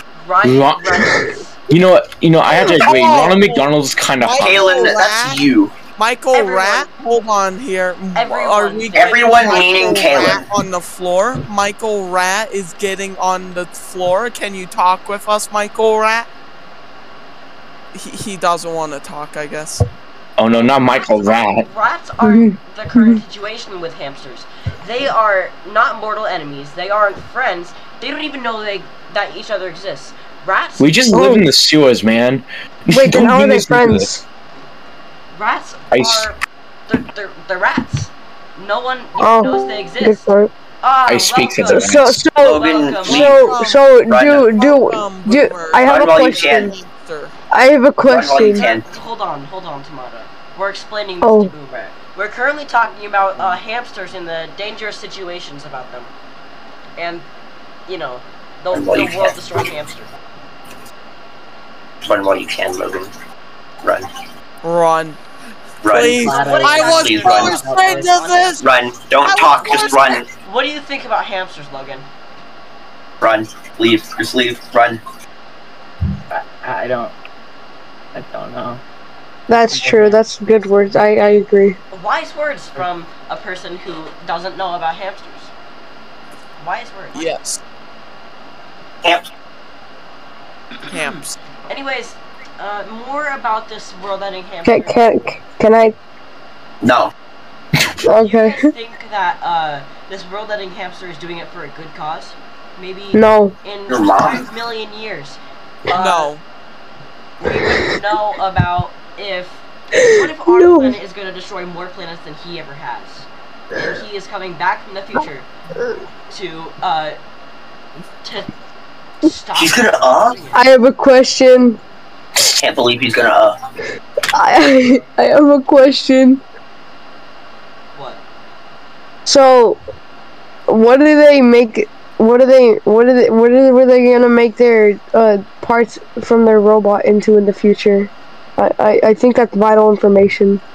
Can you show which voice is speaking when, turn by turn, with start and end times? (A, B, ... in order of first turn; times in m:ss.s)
0:00.2-0:01.6 A
0:00.4-0:01.0 B
0:01.7-0:04.6 B
0:02.6-0:03.7 C
0:04.2-0:05.4 C
0:04.4-0:05.8 D
0:06.0-0:16.3 C
0:06.3-0:06.9 A
0:08.1-0:10.1 A
0:08.9-0:10.4 D
0:17.9-0:19.8 C
0:20.4-0:21.6 B
0:20.5-0:31.2 A
0:22.2-0:23.2 E
0:30.8-0:34.1 B
0:31.1-0:31.5 E
0:32.9-0:34.2 E
0:35.3-0:40.2 A
0:35.9-0:36.3 B
0:39.2-0:40.5 E
0:40.8-0:43.4 A
0:41.1-0:42.2 B
0:41.6-0:46.7 E
0:42.4-0:44.5 D
0:43.1-0:47.3 C
0:45.8-0:46.7 D
0:47.5-0:48.7 E
0:48.0-0:48.8 D
0:48.5-0:56.1 A
0:51.2-0:51.5 E
0:57.0-0:57.2 A
0:57.9-1:00.1 A
0:58.7-0:59.7 D
1:02.0-1:03.1 D
1:03.8-1:04.1 D
1:04.6-1:05.2 C
1:05.8-1:07.6 D
1:05.8-1:08.6 C
1:06.0-1:08.1 F
1:06.3-1:08.6 A
1:08.6-1:10.3 D
1:09.2-1:10.1 C
1:09.6-1:12.0 A
1:13.2-1:15.0 D
1:16.3-1:17.1 F
1:18.1-1:18.8 F
1:19.5-1:21.8 E
1:19.7-1:20.2 F
1:21.9-1:25.5 A
1:26.6-1:27.3 A
1:27.1-1:27.6 C
1:30.9-1:31.4 C
1:30.9-1:35.1 A
1:34.6-1:35.9 E
1:36.8-1:37.1 D
1:38.0-1:38.7 E
1:38.1-1:46.3 A
1:43.1-1:43.5 E
1:43.9-1:44.4 D
1:45.9-1:46.4 C
1:47.4-1:55.5 A
1:49.9-1:51.0 E
1:56.3-1:57.2 A
1:58.2-1:58.5 A
1:59.2-2:00.6 A
1:59.5-2:00.4 D
2:00.5-2:01.8 E
2:02.4-2:03.6 D
2:04.3-2:06.4 E
2:07.9-2:08.2 A
2:09.2-2:09.8 E
2:10.7-2:20.6 E